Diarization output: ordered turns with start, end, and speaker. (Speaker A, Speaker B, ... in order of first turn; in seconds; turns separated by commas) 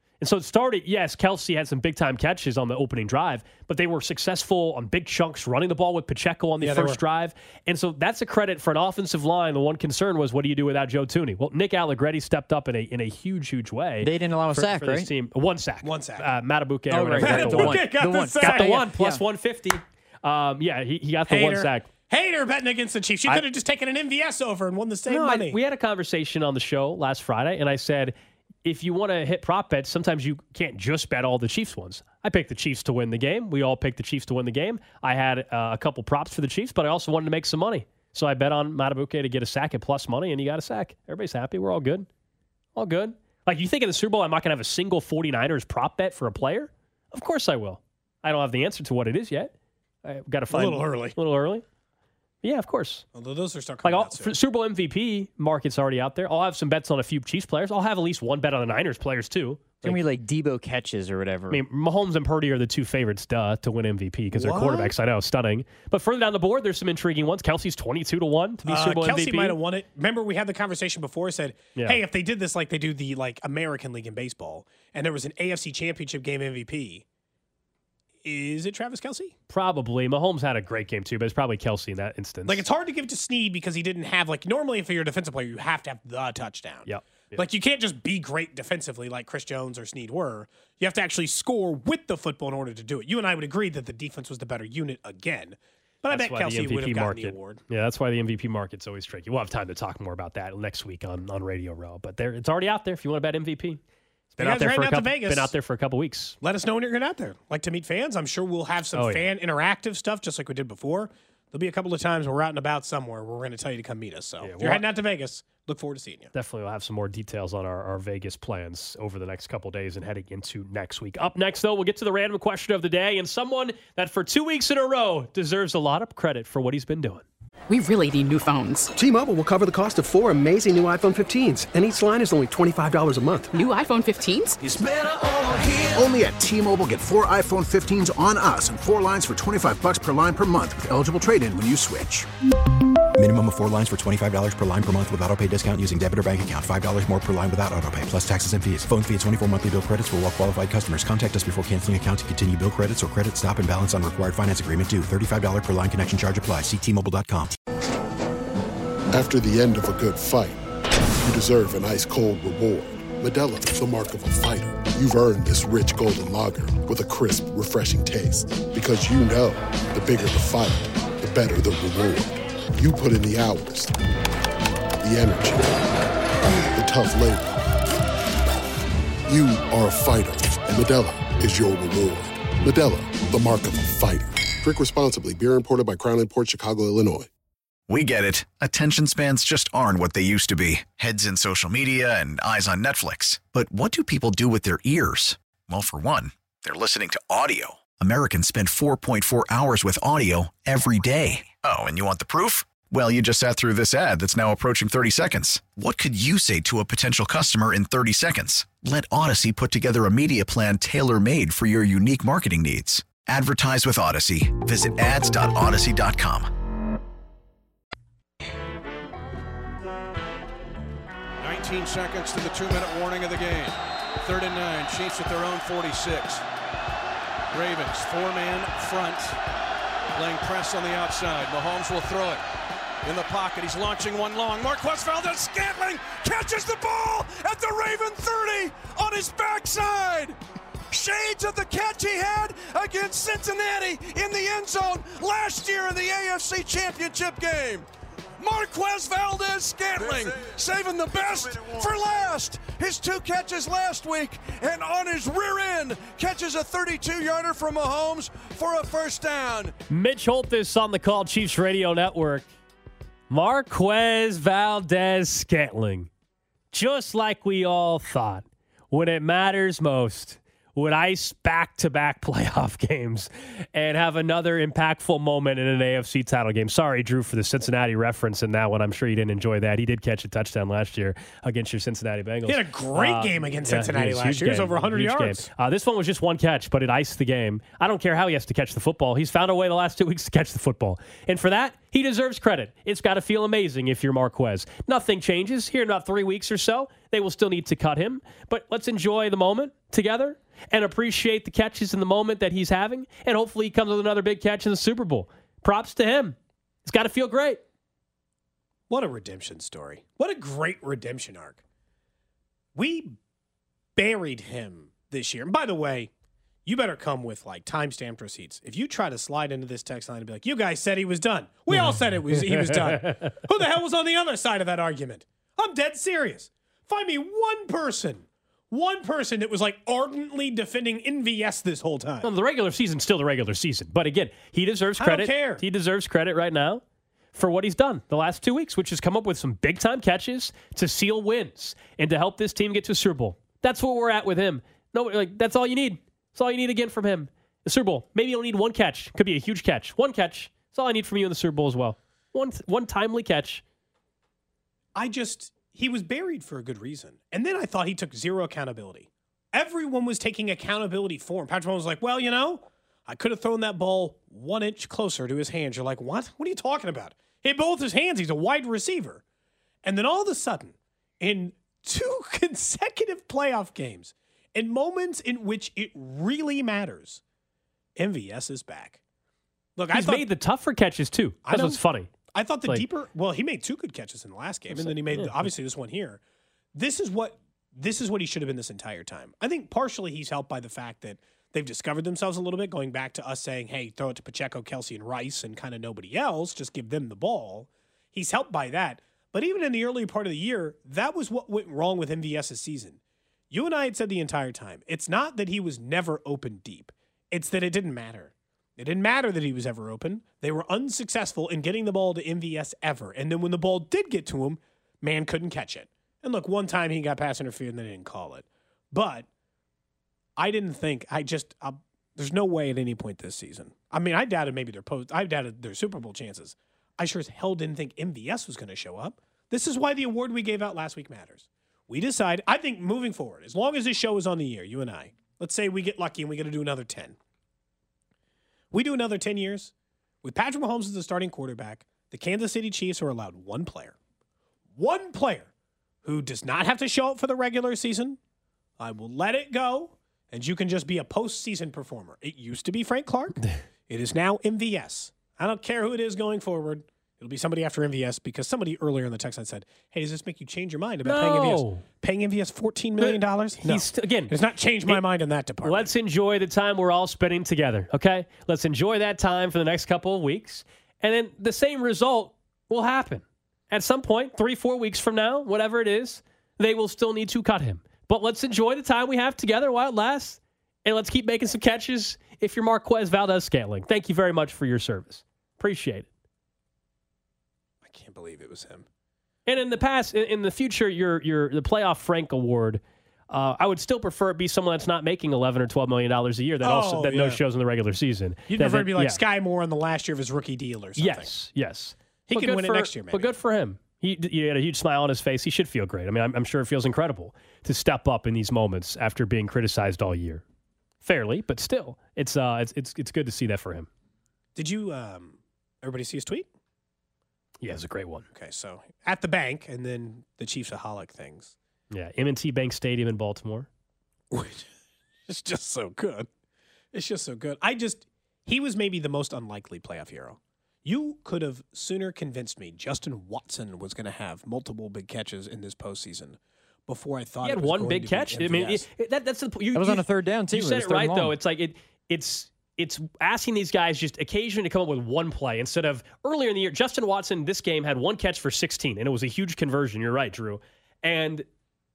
Speaker A: 0.2-21.9, Speaker B: 6.6-7.0, Speaker C: 14.0-15.1, Speaker B: 15.8-16.3, Speaker C: 16.9-19.2, Speaker B: 17.2-18.8, Speaker B: 21.3-25.6, Speaker A: 25.1-42.1, Speaker A: 42.8-51.6, Speaker B: 50.5-51.2, Speaker A: 52.4-53.0, Speaker B: 53.1-54.3, Speaker A: 53.8-60.0, Speaker C: 59.8-61.6, Speaker A: 61.5-69.6, Speaker B: 64.3-64.9, Speaker B: 68.7-77.0, Speaker B: 78.2-79.3, Speaker A: 79.5-82.7, Speaker B: 82.5-97.6, Speaker A: 86.9-87.4, Speaker A: 96.1-103.8, Speaker A: 104.4-106.4, Speaker B: 104.4-105.5, Speaker B: 106.4-116.3, Speaker A: 108.9-109.3, Speaker A: 114.4-114.8, Speaker A: 116.3-127.2, Speaker D: 127.7-128.9, Speaker E: 129.0-133.5, Speaker D: 133.5-134.6, Speaker F: 134.6-142.3, Speaker G: 143.2-157.6, Speaker H: 159.1-160.6, Speaker H: 161.2-174.0, Speaker H: 175.0-175.9, Speaker H: 176.6-177.6, Speaker H: 179.3-187.3, Speaker I: 187.9-216.5, Speaker J: 221.4-226.4, Speaker J: 227.5-229.4, Speaker J: 230.1-232.4, Speaker J: 233.0-240.4, Speaker J: 240.9-247.9, Speaker J: 248.4-259.8, Speaker A: 259.9-262.4, Speaker A: 263.3-266.1, Speaker A: 266.7-307.6, Speaker B: 282.5-285.5, Speaker B: 308.9-311.6, Speaker B: 312.8-313.2, Speaker B: 314.0-316.1, Speaker B: 316.6-332.3, Speaker A: 321.7-323.0, Speaker A: 332.2-336.8, Speaker B: 335.0-335.6, Speaker A: 337.4-353.6, Speaker B: 354.9-369.2, Speaker B: 369.8-377.2, Speaker B: 378.0-379.0, Speaker B: 379.8-380.3, Speaker A: 379.9-382.1, Speaker B: 381.5-386.2, Speaker A: 384.7-385.5, Speaker B: 386.7-403.0, Speaker B: 403.5-419.3, Speaker B: 420.4-437.2, Speaker B: 438.7-439.7, Speaker B: 440.2-444.0, Speaker B: 444.8-445.5, Speaker B: 446.0-448.2, Speaker B: 448.8-465.9, Speaker A: 461.1-461.8, Speaker A: 463.0-464.3, Speaker A: 465.6-486.1, Speaker B: 487.9-488.9, Speaker A: 489.5-499.2, Speaker B: 496.6-497.4, Speaker B: 498.5-501.3, Speaker A: 501.0-510.4, Speaker B: 502.3-503.4, Speaker A: 511.0-513.9, Speaker B: 514.6-516.5, Speaker A: 517.6-518.3, Speaker B: 518.3-521.5, Speaker A: 521.9-523.7, Speaker B: 524.3-524.7, Speaker B: 525.3-526.3, Speaker B: 526.9-538.9, Speaker A: 537.4-551.5, Speaker C: 539.7-541.4